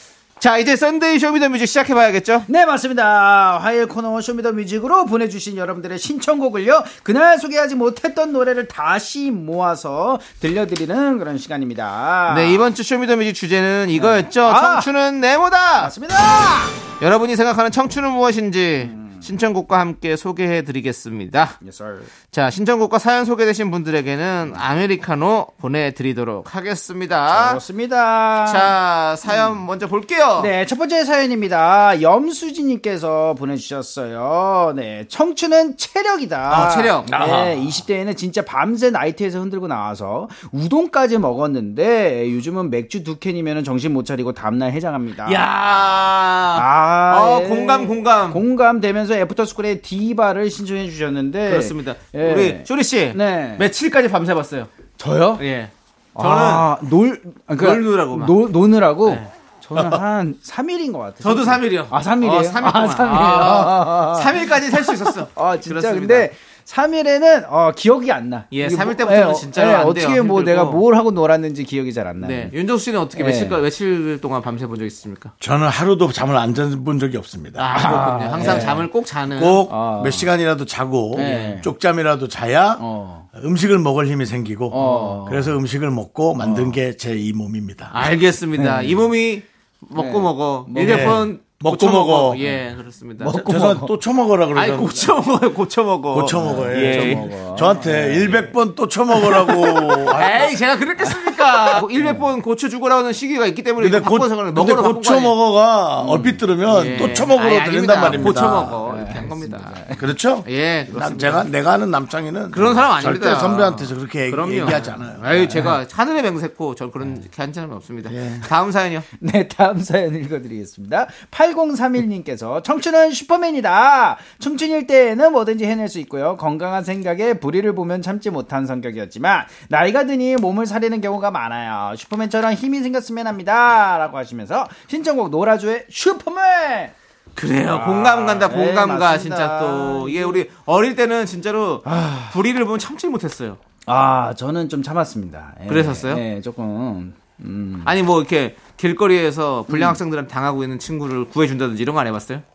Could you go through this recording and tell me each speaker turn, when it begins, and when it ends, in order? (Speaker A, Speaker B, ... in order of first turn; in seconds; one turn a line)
Speaker A: 0.4-2.5
Speaker B: 2.5-12.7
Speaker A: 12.3-15.9
Speaker B: 13.9-14.9
Speaker B: 15.8-16.8
Speaker A: 17.0-21.6
Speaker B: 18.8-19.3
Speaker B: 21.6-22.1
Speaker A: 22.3-27.6
Speaker B: 27.3-28.7
Speaker A: 28.4-30.5
Speaker B: 29.3-29.6
Speaker B: 30.4-45.5
Speaker A: 36.5-37.1
Speaker C: 37.1-37.7
Speaker A: 45.2-48.4
Speaker B: 46.5-53.7
Speaker A: 51.5-54.7
Speaker B: 55.0-55.4
Speaker A: 55.4-56.7
Speaker B: 56.1-72.5
Speaker A: 57.6-58.4
Speaker A: 61.2-66.3
Speaker A: 68.5-70.8
Speaker A: 72.2-75.3
Speaker B: 73.2-73.6
Speaker C: 75.4-78.7
Speaker A: 77.6-79.7
Speaker B: 77.7-78.9
Speaker C: 79.3-87.9
Speaker B: 79.7-80.3
Speaker B: 81.1-81.7
Speaker A: 81.2-81.6
Speaker B: 82.8-83.3
Speaker B: 84.7-85.6
Speaker A: 84.8-85.2
Speaker B: 86.4-86.8
Speaker A: 87.9-93.4
Speaker B: 88.5-89.1
Speaker B: 89.9-91.3
Speaker C: 90.8-92.4
Speaker B: 92.4-92.7
Speaker B: 93.2-93.9
Speaker C: 93.3-95.1
Speaker A: 94.5-97.3
Speaker C: 96.1-100.5
Speaker B: 96.3-98.6
Speaker A: 99.1-105.4
Speaker B: 101.1-102.3
Speaker C: 103.8-108.7
Speaker B: 106.0-106.4
Speaker A: 106.7-109.8
Speaker B: 108.0-110.2
Speaker C: 110.0-115.5
Speaker A: 110.4-111.5
Speaker A: 112.5-119.1
Speaker B: 115.3-115.8
Speaker C: 118.1-118.5
Speaker B: 119.1-136.9
Speaker A: 137.4-143.6
Speaker B: 137.6-140.4
Speaker B: 141.8-142.4
Speaker B: 143.9-147.9
Speaker A: 145.7-146.2
Speaker A: 147.8-152.4
Speaker B: 149.7-150.0